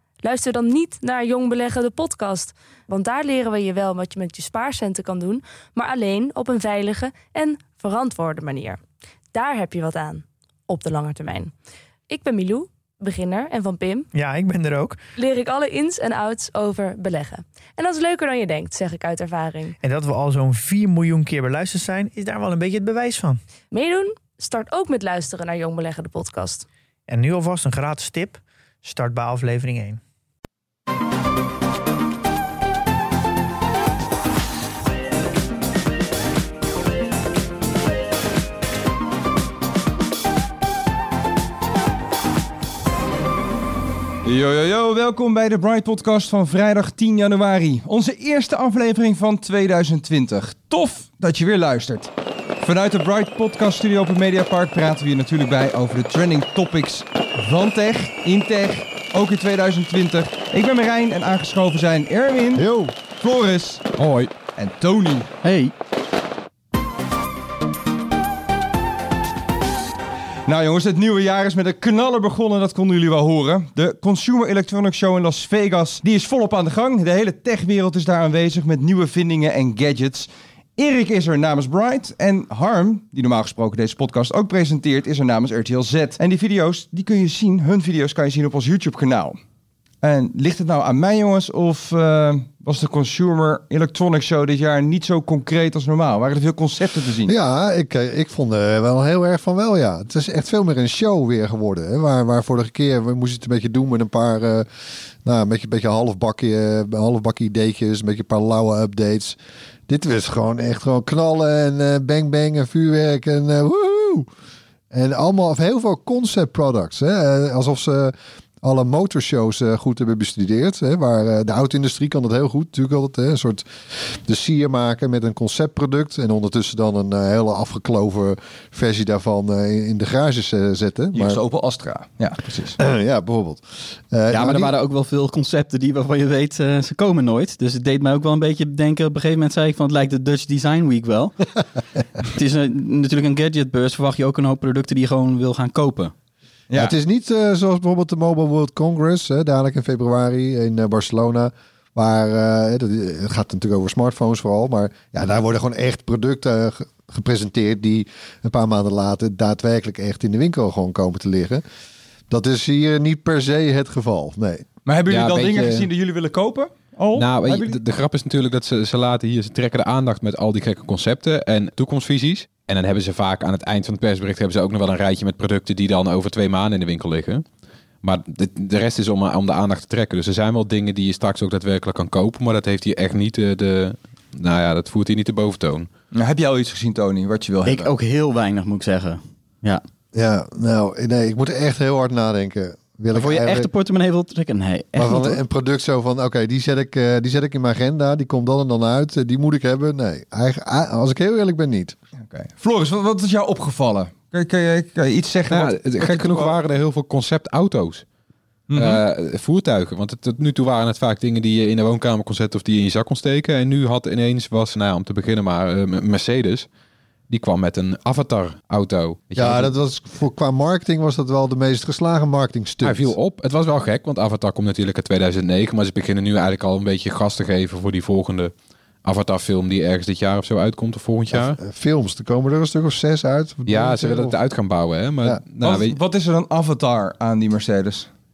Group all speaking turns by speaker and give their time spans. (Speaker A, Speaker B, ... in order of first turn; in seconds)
Speaker A: 0.2-8.8, 9.3-11.5, 12.1-14.1, 15.2-19.8, 23.7-26.6
Speaker B: 14.1-15.0, 19.8-23.4, 27.1-30.0
Speaker C: 44.2-63.9, 64.6-65.3, 70.5-89.4, 90.0-97.3, 131.2-132.8, 146.7-146.9, 164.9-167.8, 186.1-187.9, 202.3-206.6, 208.7-209.0, 235.6-238.1
Speaker D: 62.5-63.0, 97.3-104.7, 105.2-109.4, 109.9-114.3, 114.9-131.4, 132.8-134.7, 146.8-161.6, 162.3-164.7, 190.1-193.7, 195.0-201.9, 219.4-223.2, 231.3-234.4
Speaker E: 64.0-64.3, 165.1-165.9, 167.2-177.4, 178.0-185.9, 205.5-208.1, 208.8-216.7, 217.3-219.7, 222.8-228.5, 229.0-231.6, 233.7-236.0
Speaker F: 65.4-65.7, 134.3-141.4, 142.3-146.1, 187.7-189.8, 193.1-195.4